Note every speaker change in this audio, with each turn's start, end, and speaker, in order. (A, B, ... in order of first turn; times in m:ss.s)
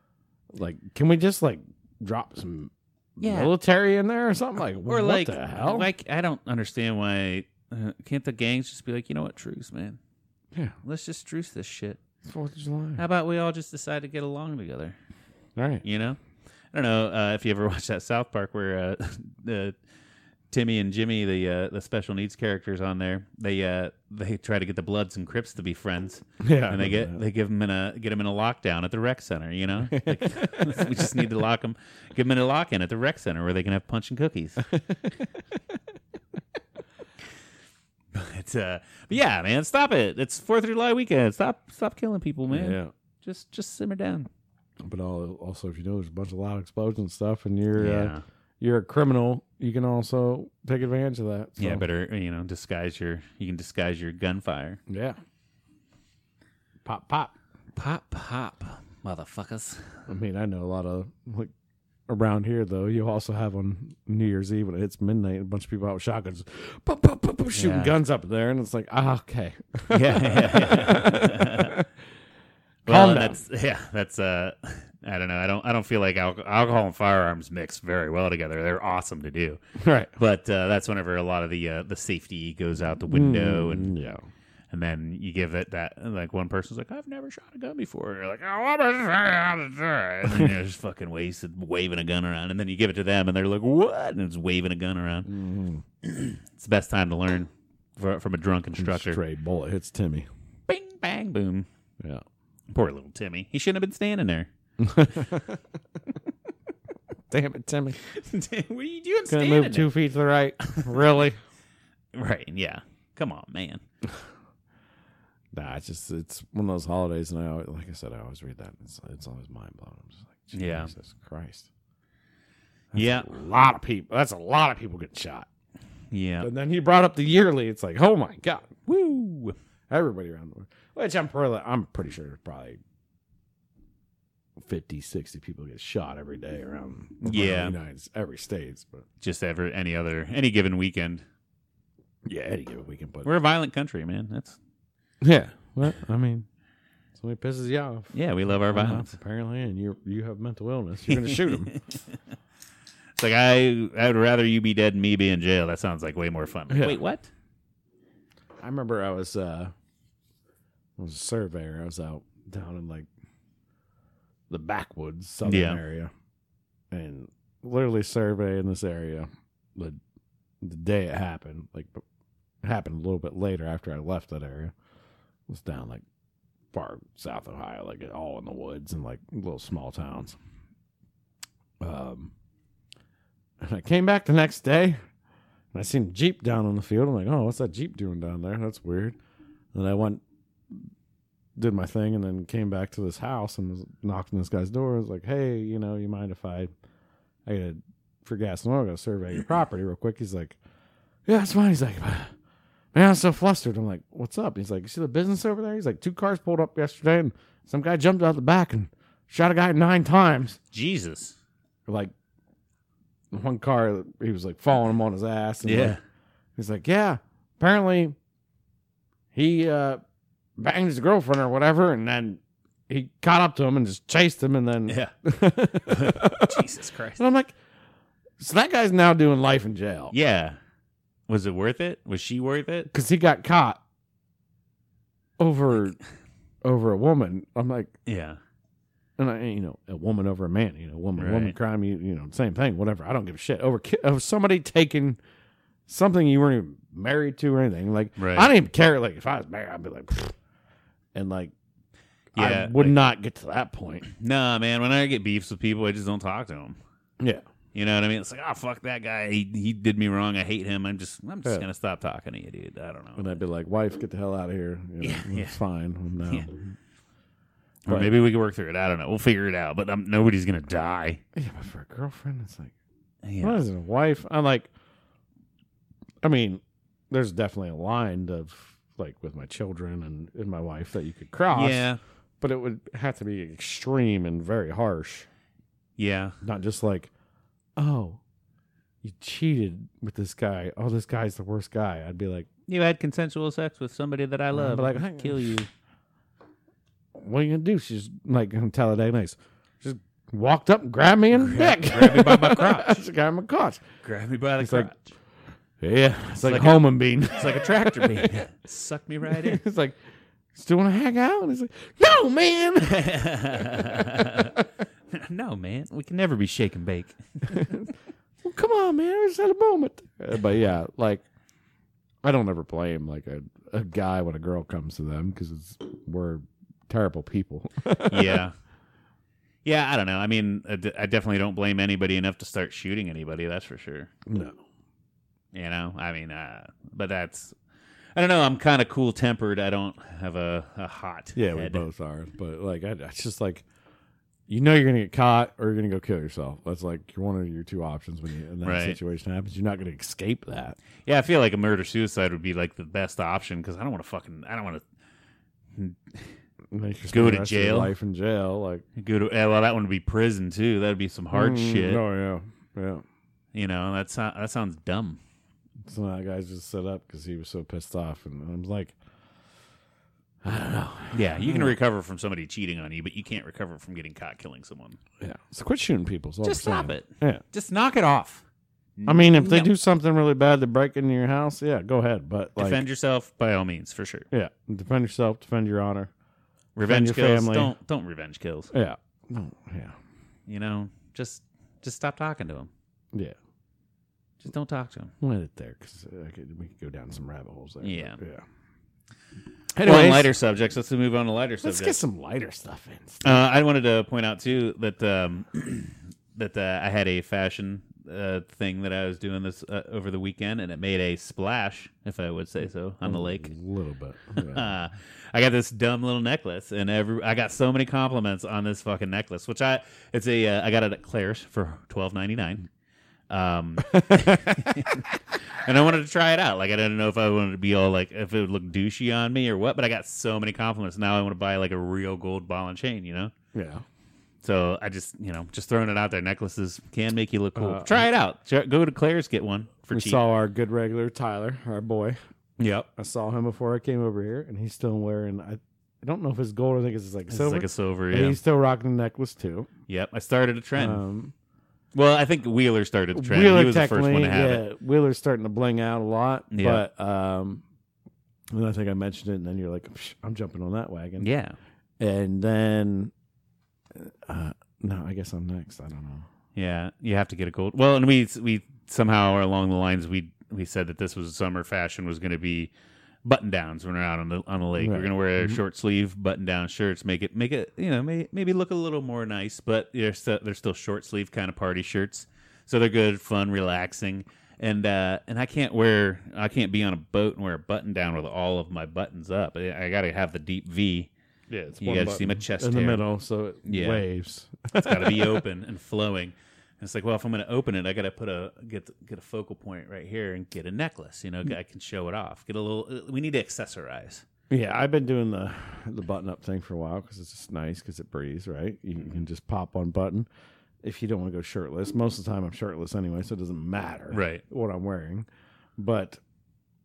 0:00.5-0:05.9 A
0:03.2-0:03.5 B
0:04.9-0:10.0 B
0:10.8-0:12.0 B
0:12.2-0:13.0 A
0:13.0-0:15.0 B
0:15.6-0:15.8 A
0:15.8-0:16.2 B
0:16.7-0:19.8 B
0:20.5-0:34.7 B
0:26.4-0:27.2 A
0:29.9-0:31.2 A
0:34.7-0:35.2 A
0:38.1-0:44.3 B
0:42.5-0:42.9 A
0:44.8-0:51.8 A
0:47.8-0:48.2 B
0:51.6-0:54.8 B
0:54.9-0:55.2 A
0:56.8-0:57.3 A
0:57.8-1:00.0 B
1:00.1-1:01.5 A
1:02.1-1:11.9 A
1:07.5-1:07.9 B
1:09.9-1:11.8 B
1:12.9-1:13.4 A
1:12.9-1:19.6 B
1:19.8-1:20.1 A
1:20.2-1:23.9 B
1:23.1-1:24.2 A
1:24.7-1:35.3 B
1:30.2-1:30.5 A
1:35.2-1:35.8 A
1:36.0-1:39.2 B
1:38.8-1:40.3 A
1:40.7-1:41.7 B
1:42.7-1:44.5 B
1:44.8-1:45.6 A
1:47.3-1:48.0 A
1:48.0-1:49.9 B
1:49.3-1:51.4 A
1:50.6-1:51.0 B
1:52.1-1:53.8 B
1:55.5-2:01.7 A
2:00.5-2:00.9 B
2:02.9-2:03.3 B
2:02.9-2:05.5 A
2:06.1-2:06.5 B
2:06.4-2:08.7 A
2:08.9-2:09.6 B
2:09.9-2:12.8 A
2:14.6-2:19.0 A
2:17.2-2:17.8 B
2:19.2-2:21.2 B
2:22.2-2:23.3 A
2:23.2-2:24.6 B
2:25.2-2:26.5 A
2:27.2-2:31.7 A
2:28.1-2:29.2 B
2:31.1-2:32.2 B
2:33.2-2:37.3 B
2:36.7-2:37.0 A
2:38.6-2:39.7 A
2:41.0-2:43.1 A
2:44.5-2:46.1 A
2:45.4-2:45.8 B
2:46.9-2:50.0 A
2:50.6-2:52.0 A
2:52.6-2:54.7 A
2:55.5-2:56.0 A
2:56.7-3:00.4 A
3:01.8-3:02.3 A
3:03.6-3:05.0 A
3:05.7-3:09.2 A
3:09.7-3:10.9 A
3:11.6-3:16.7 A
3:17.4-3:20.6 A
3:21.2-3:22.3 A
3:22.9-3:30.6 A
3:30.7-3:31.4 B
3:31.9-3:32.1 A
3:33.3-3:36.0 A
3:35.6-3:36.0 B
3:36.6-3:38.2 A
3:39.3-3:40.0 A
3:40.6-3:46.6 A
3:44.9-3:45.1 B
3:45.8-3:47.2 B
3:47.2-3:47.6 A
3:48.4-3:50.1 A
3:50.1-3:50.6 B
3:51.3-3:52.9 B
3:52.9-3:53.8 A
3:55.4-3:56.0 A
3:56.6-3:57.9 A
3:58.1-3:58.4 B
3:59.2-4:05.2 A
4:01.2-4:01.5 B
4:05.9-4:10.4 A
4:08.2-4:08.5 B
4:11.1-4:11.5 A
4:12.4-4:14.1 A
4:12.4-4:13.0 B
4:14.1-4:16.8 B
4:17.7-4:23.4 B
4:23.2-4:26.7 A
4:25.0-4:25.6 B
4:27.9-4:31.2 B
4:27.9-4:28.1 A
4:31.4-4:32.7 A
4:33.2-4:33.6 B
4:33.4-4:34.7 A
4:36.2-4:41.9 A
4:41.5-4:42.0 B
4:42.4-4:45.3 A
4:46.0-4:46.4 B
4:46.4-4:47.1 A
4:47.8-4:48.2 A
4:49.0-4:52.5 A
4:52.7-4:55.7 B
4:54.5-4:55.6 A
4:57.1-5:03.8 A
5:01.3-5:03.0 B
5:04.0-5:05.1 B
5:04.6-5:04.9 A
5:05.8-5:08.5 A
5:06.4-5:09.6 B
5:09.3-5:10.0 A
5:10.5-5:14.6 A
5:12.8-5:17.7 B
5:17.4-5:21.2 A
5:22.2-5:28.4 A
5:28.0-5:28.5 B
5:29.6-5:34.1 B
5:34.2-5:34.6 A
5:35.5-5:37.6 B
5:38.1-5:41.8 B
5:41.4-5:43.6 A
5:44.5-5:50.8 A
5:48.6-5:49.0 B
5:51.0-5:54.8 B
5:55.8-5:56.3 B
5:56.7-5:58.8 A
5:57.1-5:57.9 B
5:59.0-6:02.0 B
6:01.3-6:03.0 A
6:03.5-6:05.2 B
6:05.8-6:09.0 A
6:10.4-6:11.8 A
6:11.1-6:15.0 B
6:15.2-6:17.4 A
6:16.4-6:18.4 B
6:19.0-6:19.7 B
6:19.1-6:22.8 A
6:22.6-6:24.2 B
6:24.3-6:26.1 A
6:26.8-6:28.7 B
6:26.8-6:27.7 A
6:28.7-6:30.0 A
6:30.5-6:32.7 B
6:34.4-6:35.1 B
6:35.2-6:38.4 A
6:37.8-6:38.2 B
6:39.7-6:40.3 A
6:39.8-6:42.0 B
6:41.6-6:43.4 A
6:43.2-6:53.5 B
6:53.0-6:54.8 A
6:54.4-7:02.7 B
7:03.3-7:13.3 B
7:03.9-7:05.1 A
7:13.5-7:13.8 A
7:14.4-7:20.2 B
7:17.6-7:18.1 A
7:19.9-7:22.2 A
7:22.6-7:22.9 B
7:23.0-7:29.7 A
7:27.3-7:28.4 B
7:29.9-7:31.0 B
7:30.8-7:31.3 A
7:31.9-7:34.6 B
7:33.1-7:37.6 A
7:36.5-7:36.8 B
7:38.5-7:41.3 A
7:41.2-7:41.6 B
7:42.0-7:43.1 A
7:43.9-7:46.3 A
7:46.6-7:52.7 B
7:53.2-8:11.1 B
7:54.8-7:55.6 A
8:11.5-8:15.4 A
8:11.8-8:13.0 B
8:13.6-8:14.0 B
8:14.8-8:24.2 B
8:24.5-8:30.3 A
8:30.8-8:35.3 A
8:34.1-8:34.4 B
8:35.8-8:36.2 A